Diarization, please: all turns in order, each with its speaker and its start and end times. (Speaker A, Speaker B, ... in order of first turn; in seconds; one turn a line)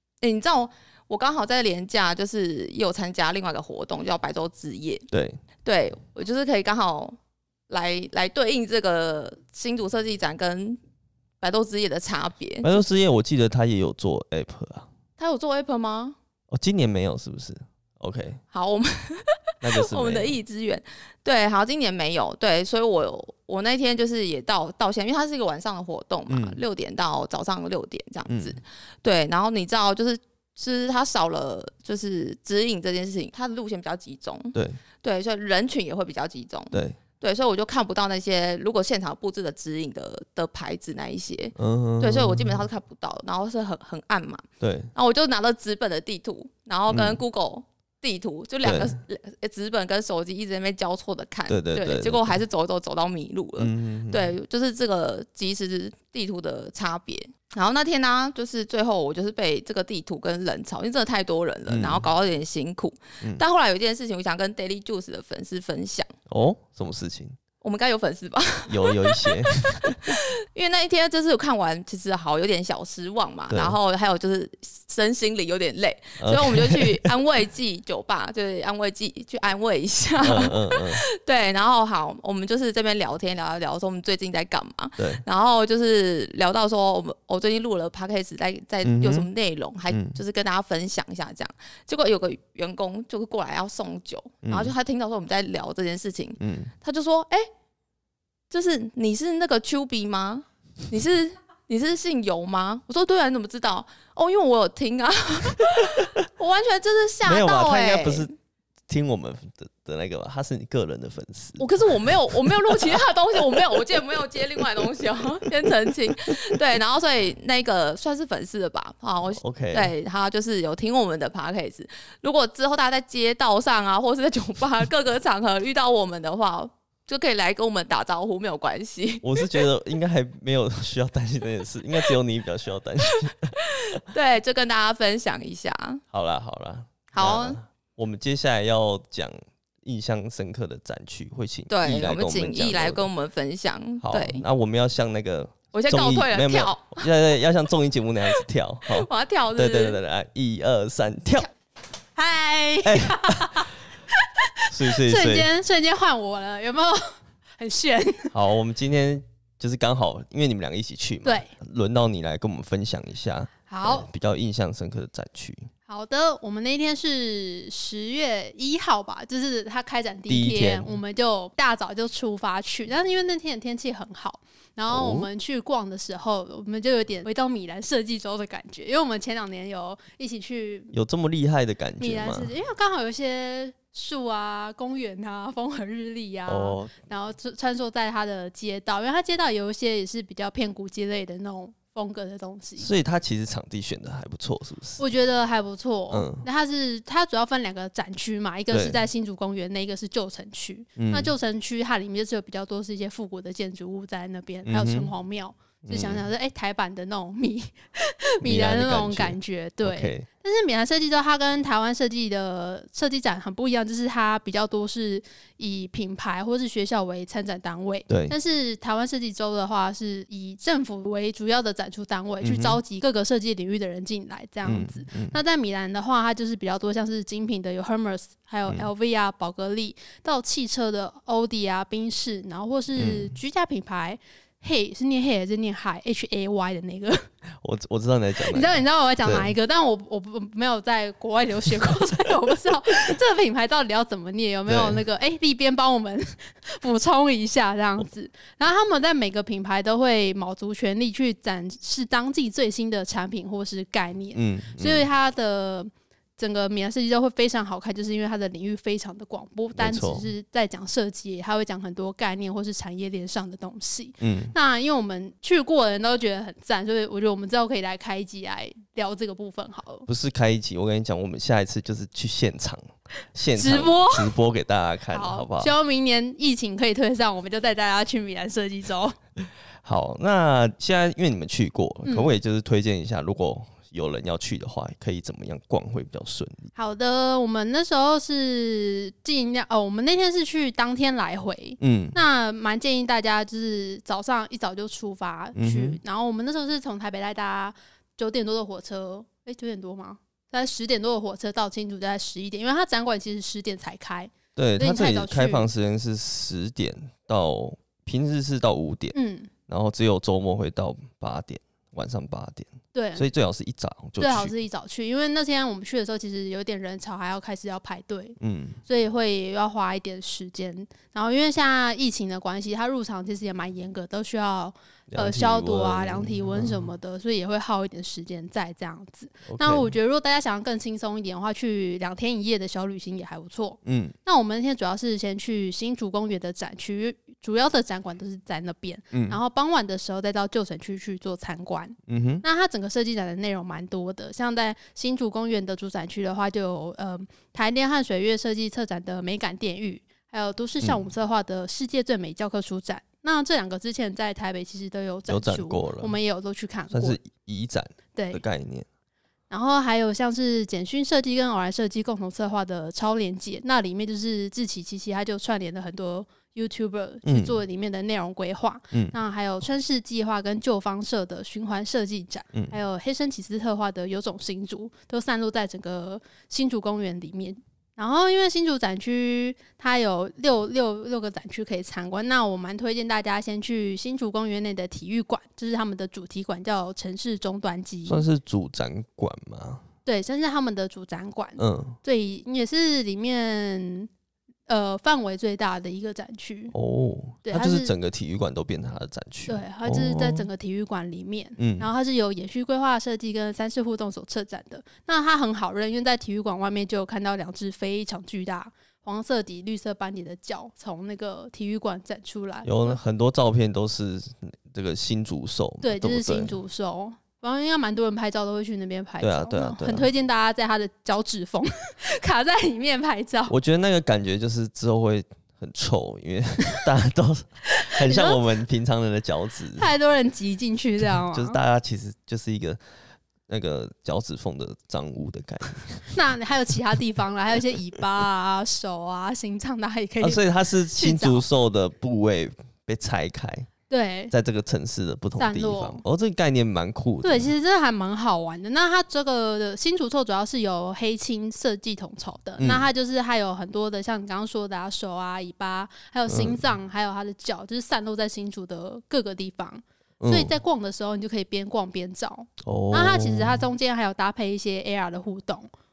Speaker A: 0.2-5.0
Speaker B: 5.1-5.4
Speaker A: 5.6-7.2
Speaker A: 7.7-10.8
Speaker A: 11.4-12.8
Speaker B: 12.6-14.9
Speaker A: 15.2-16.2
Speaker B: 16.5-18.4
Speaker A: 18.5-66.1
Speaker B: 19.6-20.4
Speaker B: 26.3-26.6
Speaker B: 28.3-28.6
Speaker B: 34.5-34.8
Speaker B: 36.7-37.0
Speaker B: 41.5-42.6
Speaker B: 44.6-44.9
Speaker B: 46.9-47.2
Speaker B: 48.6-49.0
Speaker B: 51.5-52.4
Speaker B: 53.6-54.3
Speaker B: 61.7-62.1
Speaker B: 66.3-67.4
Speaker A: 67.6-97.5
Speaker B: 68.7-70.2
Speaker B: 73.5-73.8
Speaker B: 76.2-77.1
Speaker B: 80.2-81.0
Speaker B: 85.0-85.2
Speaker B: 88.8-89.3
Speaker B: 89.9-90.2
Speaker B: 94.4-94.7
Speaker B: 96.4-96.7
Speaker A: 98.5-108.3
Speaker B: 105.8-106.1
Speaker B: 107.2-108.3
Speaker B: 108.9-114.8
Speaker A: 111.6-129.7
Speaker B: 119.3-119.9
Speaker B: 129.2-134.0
Speaker A: 133.6-136.0
Speaker B: 136.1-143.1
Speaker A: 137.1-137.6
Speaker A: 141.7-144.4
Speaker B: 144.0-151.5
Speaker A: 145.7-147.1
Speaker A: 148.9-150.0
Speaker C: 152.2-153.7
Speaker B: 152.8-153.7
Speaker C: 154.6-158.3
Speaker B: 154.7-155.5
Speaker B: 158.3-165.7
Speaker C: 161.2-161.5
Speaker C: 163.7-164.1
Speaker C: 165.9-180.9
Speaker B: 170.3-170.9
Speaker B: 174.9-175.3
Speaker B: 180.9-182.5
Speaker C: 182.0-192.9
Speaker B: 186.5-186.9
Speaker B: 192.8-195.0
Speaker C: 195.0-237.3
Speaker B: 196.1-196.4
Speaker B: 198.7-199.0
Speaker B: 201.0-201.3
Speaker B: 204.7-205.1
Speaker B: 205.8-206.2
Speaker B: 208.4-210.3
Speaker B: 218.1-218.3
Speaker B: 222.4-222.8
Speaker B: 224.6-225.4
Speaker B: 232.9-233.3
Speaker B: 237.6-239.5
Speaker C: 238.4-270.1
Speaker B: 244.7-245.0
Speaker B: 254.3-255.1
Speaker B: 259.8-260.3
Speaker B: 264.2-264.5
Speaker B: 270.1-275.7
Speaker C: 273.5-274.3
Speaker C: 275.1-279.1
Speaker B: 279.8-286.7
Speaker C: 282.0-282.3
Speaker C: 286.7-305.7
Speaker B: 291.8-292.2
Speaker B: 295.5-296.0
Speaker B: 304.6-309.1
Speaker C: 309.1-309.5
Speaker B: 309.7-314.5
Speaker C: 312.9-313.3
Speaker C: 314.2-357.2
Speaker B: 318.4-318.8
Speaker B: 325.1-326.9
Speaker B: 329.4-329.9
Speaker B: 333.8-334.1
Speaker B: 339.1-339.4
Speaker B: 342.1-342.4
Speaker B: 350.8-351.1
Speaker B: 355.3-356.1
Speaker B: 356.9-358.9
Speaker C: 358.1-358.4
Speaker C: 359.5-388.2
Speaker B: 367.2-367.6
Speaker B: 368.9-369.2
Speaker B: 388.1-389.8
Speaker C: 390.1-394.1
Speaker B: 391.6-392.0
Speaker C: 394.7-396.7
Speaker B: 396.7-400.5
Speaker C: 397.4-397.9
Speaker C: 399.5-413.0
Speaker B: 401.6-401.9
Speaker B: 412.6-416.6
Speaker C: 415.8-423.5
Speaker B: 419.2-420.1
Speaker B: 423.5-429.9
Speaker C: 427.7-428.4
Speaker C: 429.8-431.6
Speaker B: 431.1-432.8
Speaker B: 433.5-436.1
Speaker C: 436.1-441.4
Speaker B: 440.2-443.7
Speaker C: 443.9-444.3
Speaker B: 444.3-447.5
Speaker C: 445.4-446.0
Speaker C: 447.2-465.7
Speaker B: 452.6-452.9
Speaker B: 456.3-456.6
Speaker B: 460.2-460.5
Speaker B: 462.6-463.6